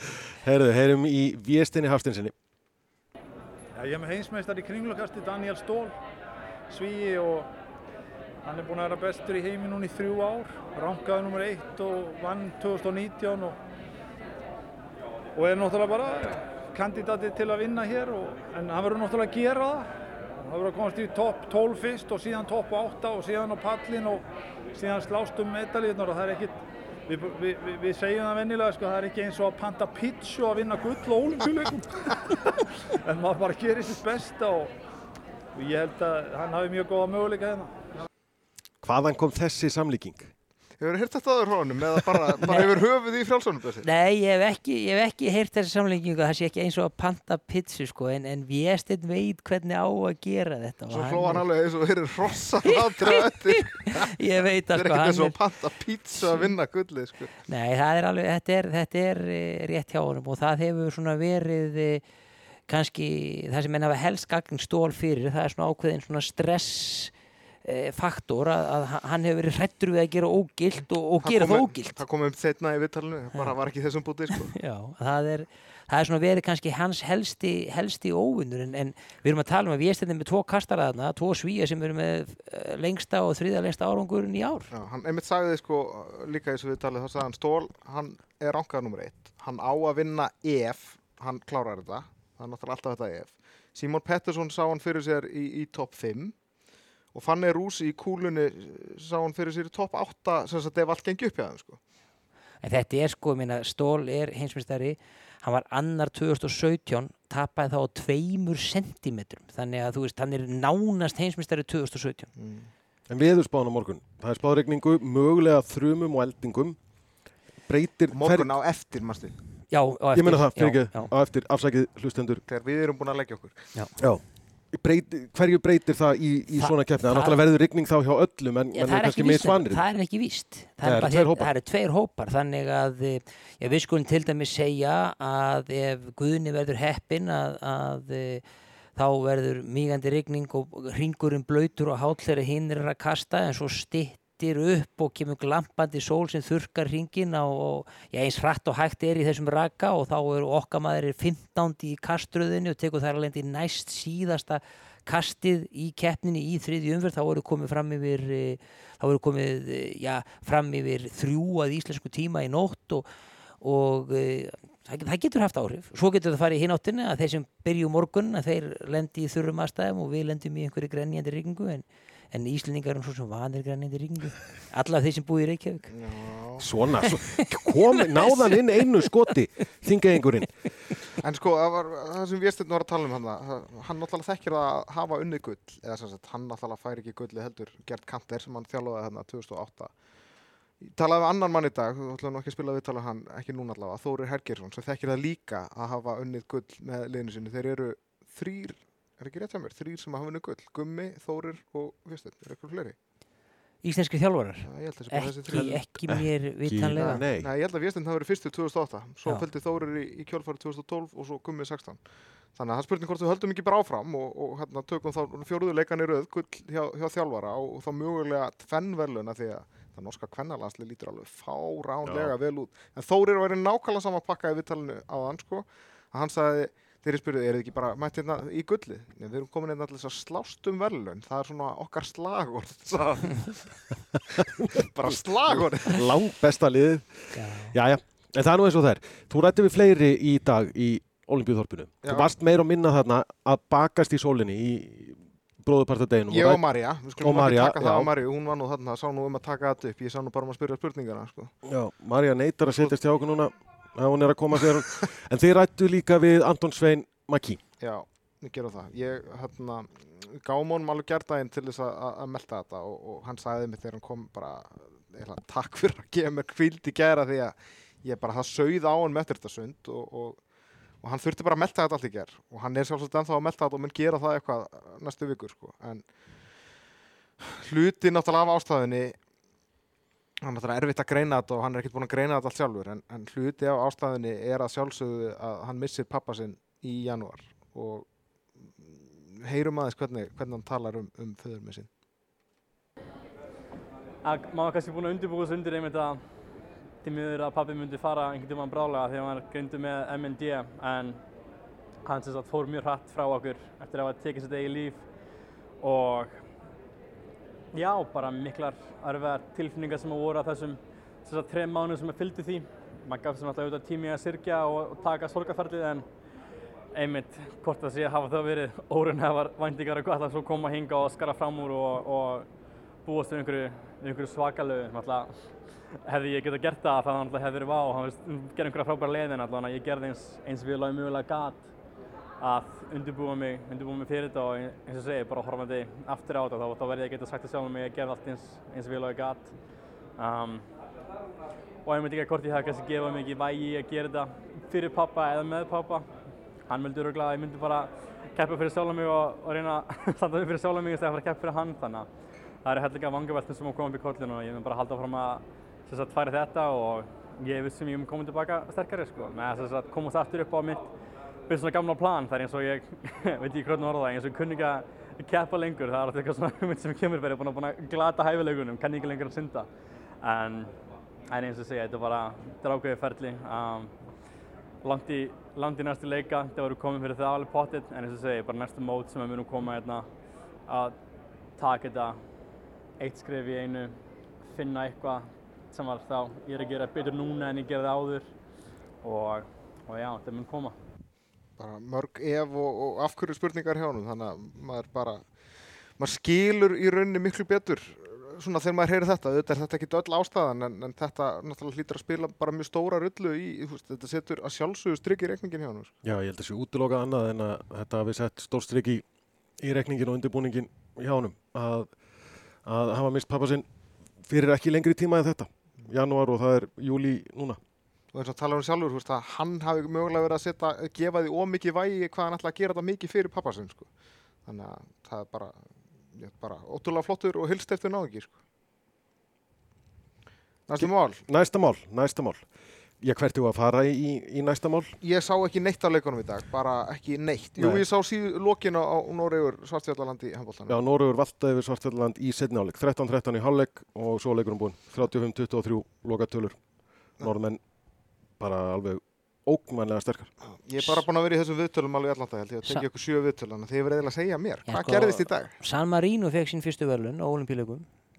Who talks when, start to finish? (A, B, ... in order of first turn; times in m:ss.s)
0:00.4-0:02.3 A
0:03.8-0:05.9 B
0:06.7-0:07.5 B
0:08.4-0:13.6 B
0:15.4-0:19.9 B
0:20.4-0:34.7 B
0:35.6-0:37.8 B
0:38.8-0:40.3 A
0:40.8-0:43.9 C
0:43.8-0:51.4 D
0:50.9-0:54.1 C
0:52.9-0:55.4 D
0:54.7-0:57.3 C
0:57.4-1:02.0 D
1:02.7-1:07.1 D
1:07.6-1:12.0 D
1:11.2-1:14.5 C
1:14.4-1:24.7 D
1:24.7-1:36.4 C
1:37.1-1:41.8 C
1:42.6-1:52.3 D
1:52.4-1:52.7 C
1:53.1-1:56.8 A
1:57.7-1:58.6 A
1:58.1-1:59.4 C
1:59.7-2:01.1 D
2:00.1-2:02.4 A
2:02.5-2:03.7 C
2:04.0-2:09.8 A
2:06.6-2:07.4 D
2:08.7-2:18.4 D
2:10.8-2:11.5 A
2:19.0-2:43.1 D
2:43.6-2:55.9 D
2:55.9-2:56.7 C
2:56.6-3:00.6 A
2:58.1-2:58.6 D
3:01.2-3:09.9 C
3:10.8-3:23.0 C
3:23.8-3:27.2 D
3:24.6-3:25.8 C
3:25.5-3:27.5 A
3:27.0-3:32.0 C
3:32.5-3:53.9 C
3:42.0-3:42.3 A
3:54.4-4:06.6 A
3:54.8-3:56.1 C
3:57.3-3:57.7 D
4:02.0-4:02.3 C
4:06.3-4:11.5 C
4:07.2-4:08.1 A
4:11.6-4:17.6 A
4:12.7-4:12.9 C
4:17.8-4:30.4 C
4:31.0-4:36.1 C
4:37.4-4:39.2 C
4:40.4-4:48.1 C
4:48.7-4:51.9 C
4:54.2-4:56.2 E
4:57.0-5:01.2 E
5:02.0-5:05.1 E
5:05.8-5:06.4 E
5:07.7-5:16.1 E
5:16.9-5:22.5 E
5:23.0-5:25.3 E
5:26.1-5:31.7 E
5:32.4-5:39.5 E
5:40.2-5:40.6 E
5:41.8-5:46.1 E
5:46.7-5:52.1 E
5:52.6-6:00.9 E
6:01.5-6:09.7 E
6:10.2-6:10.7 E
6:11.3-6:13.9 E
6:14.8-6:20.1 E
6:20.7-6:21.0 E
6:21.6-6:22.2 E
6:23.0-6:28.3 E
6:29.0-6:30.8 E
6:31.6-6:35.2 C
6:36.0-6:46.0 C
6:46.0-6:49.0 A
6:49.6-6:52.0 A
6:52.6-6:53.7 A
6:54.2-6:57.6 A
6:58.1-7:03.9 C
7:04.4-7:05.6 C
7:06.2-7:08.4 C
7:10.7-7:11.2 C
7:10.8-7:12.4 A
7:13.0-7:15.0 A
7:15.0-7:20.8 C
7:17.6-7:17.8 A
7:20.7-7:26.6 A
7:27.2-7:27.6 A
7:28.4-7:30.3 A
7:30.6-7:35.5 C
7:34.7-7:37.9 D